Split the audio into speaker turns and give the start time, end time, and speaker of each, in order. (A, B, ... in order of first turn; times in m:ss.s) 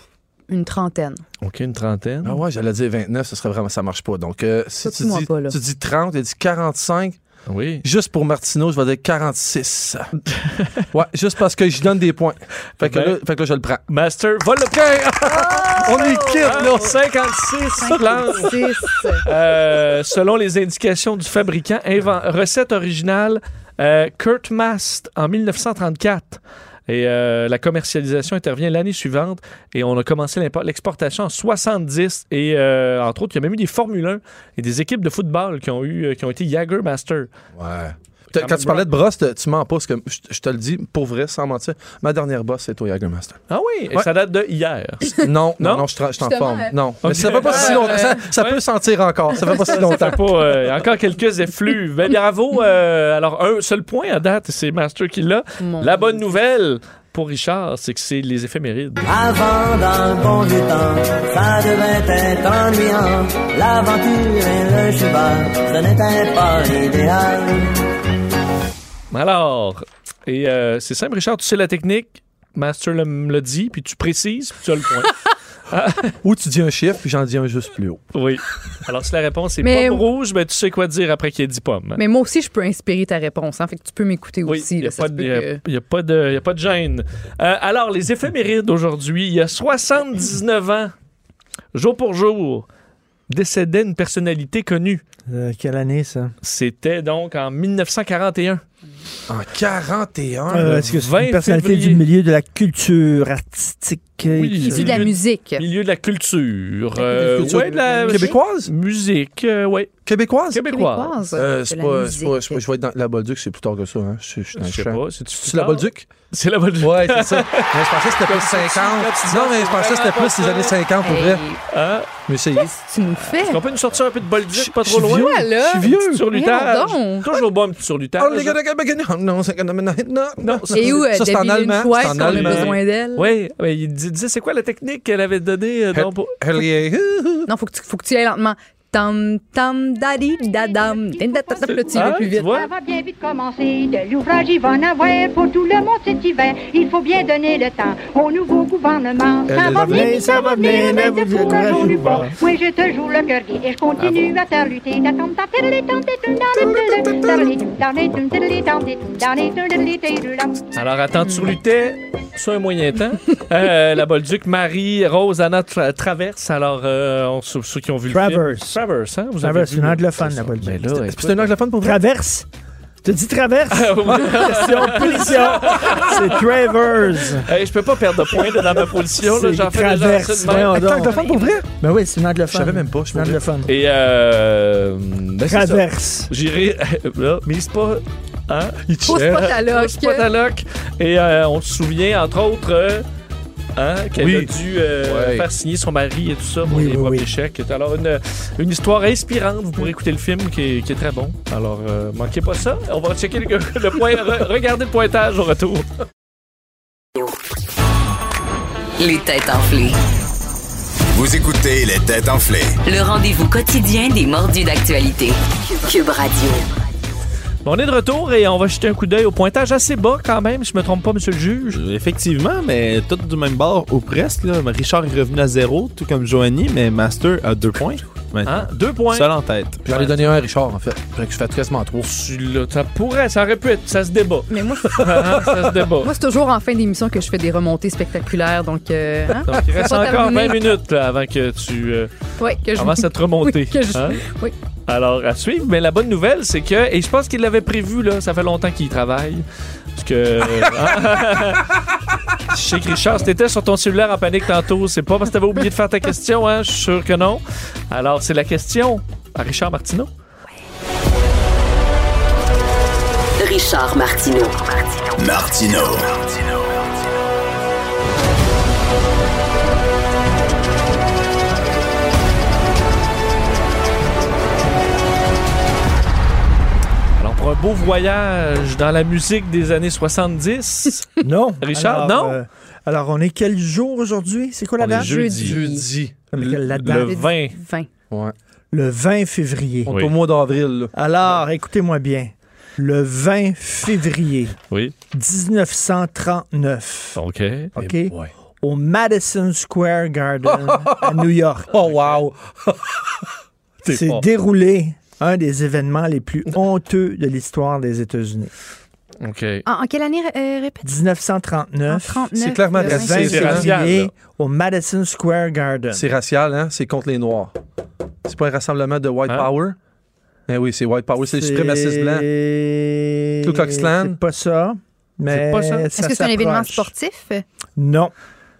0:00.5-0:01.2 A
0:01.4-0:02.4 B
0:02.2-0:07.2 C
0:04.8-0:05.6 A
0:07.5-0:07.8 B
0:07.8-0:10.1 C
0:10.4-0:10.8 B
0:10.9-0:13.8 C
0:12.8-0:13.2 B
0:13.9-0:15.0 B
0:14.7-0:17.0 C
0:15.2-0:16.8 A
0:16.4-0:18.6 B
0:17.8-0:19.2 A
0:19.2-0:37.3 B
0:37.6-0:43.4 C
0:38.4-0:38.9 B
0:43.5-0:45.8 B
0:45.2-0:50.2 C
0:46.2-0:46.7 A
0:47.0-0:48.6 B
0:47.2-0:48.2 A
0:49.4-0:49.8 A
0:49.7-0:59.1 B
0:55.6-0:56.3 A
0:59.1-1:07.7 D
1:09.1-1:15.1 B
1:15.7-1:16.1 B
1:16.2-1:18.0 C
1:18.1-1:22.0 B
1:19.6-1:20.0 A
1:22.0-1:25.6 A
1:24.4-1:30.9 B
1:31.7-1:32.6 B
1:33.3-1:35.0 B
1:35.3-1:36.3 E
1:36.4-1:38.6 B
1:39.3-1:40.8 C
1:40.5-1:45.1 E
1:40.6-1:42.0 B
1:44.3-1:49.9 B
1:44.7-1:45.6 A
1:47.0-1:48.4 A
1:47.2-1:48.7 C
1:50.0-1:50.6 C
1:50.5-1:51.1 B
1:50.6-1:52.6 A
1:51.3-1:56.1 C
1:54.6-2:00.8 B
1:56.8-2:01.4 C
2:01.0-2:01.6 A
2:01.7-2:02.1 B
2:02.3-2:02.8 C
2:02.6-2:03.6 A
2:03.4-2:05.4 B
2:04.6-2:06.2 C
2:05.0-2:07.4 A
2:06.1-2:08.6 B
2:08.2-2:12.8 C
2:10.4-2:11.1 B
2:10.7-2:13.3 A
2:12.0-2:16.4 B
2:15.9-2:17.5 C
2:17.5-2:22.5 A
2:21.7-2:22.7 B
2:21.9-2:40.7 F
2:29.5-2:30.1 C
2:29.6-2:32.3 E
2:40.7-2:51.5 B
2:41.3-2:41.6 A
2:48.1-2:48.8 E
2:49.4-2:50.9 E
2:51.0-2:52.0 C
2:51.8-2:52.5 E
2:53.0-2:57.5 E
2:53.7-2:56.4 B
2:57.3-3:01.5 B
2:59.2-3:01.1 E
3:00.5-3:01.6 C
3:01.8-3:03.7 E
3:02.5-3:03.4 C
3:03.6-3:13.0 B
3:05.5-3:06.3 E
3:08.9-3:09.6 C
3:09.1-3:10.2 A
3:13.8-3:25.8 B
3:14.2-3:15.4 C
3:16.6-3:17.3 E
3:29.0-3:29.9 G
3:31.1-3:32.8 H
3:32.8-3:36.6 G
3:37.6-3:41.8 B
3:41.7-3:49.8 I
3:48.4-3:49.3 B
3:49.8-3:52.1 C
3:49.9-3:50.2 B
3:52.0-3:56.1 B
3:54.5-3:55.5 A
3:56.0-4:00.6 A
3:59.4-4:02.1 B
4:02.4-4:04.5 A
4:02.7-4:04.2 B
4:04.9-4:11.7 B
4:12.5-4:20.1 B
4:23.4-4:24.8 G
4:25.2-4:26.8 H
4:37.2-4:41.1 B
4:41.2-4:45.2 E
4:41.6-4:42.4 B
4:44.8-4:45.6 B
4:44.9-4:45.9 A
4:45.4-4:46.1 C
4:46.3-4:47.2 E
4:46.4-4:47.6 B
4:47.0-4:47.9 A
4:48.7-4:49.9 E
4:49.8-4:50.9 C
4:50.9-4:54.5 E
4:55.1-4:57.2 E
4:57.2-4:57.7 B
4:57.7-5:01.8 E
4:57.8-4:58.3 C
5:00.4-5:03.1 C
5:01.8-5:02.1 B
5:03.8-5:04.2 B
5:03.9-5:08.5 E
5:09.2-5:09.6 B
5:09.6-5:10.9 A
5:10.8-5:16.0 E
5:11.9-5:13.7 A
5:12.4-5:13.7 C
5:13.1-5:14.1 B
5:15.9-5:17.5 C
5:18.2-5:19.8 C
5:20.5-5:22.3 C
5:21.2-5:26.9 E
5:23.4-5:24.2 C
5:25.3-5:25.9 B
5:26.0-5:27.4 A
5:27.8-5:28.1 E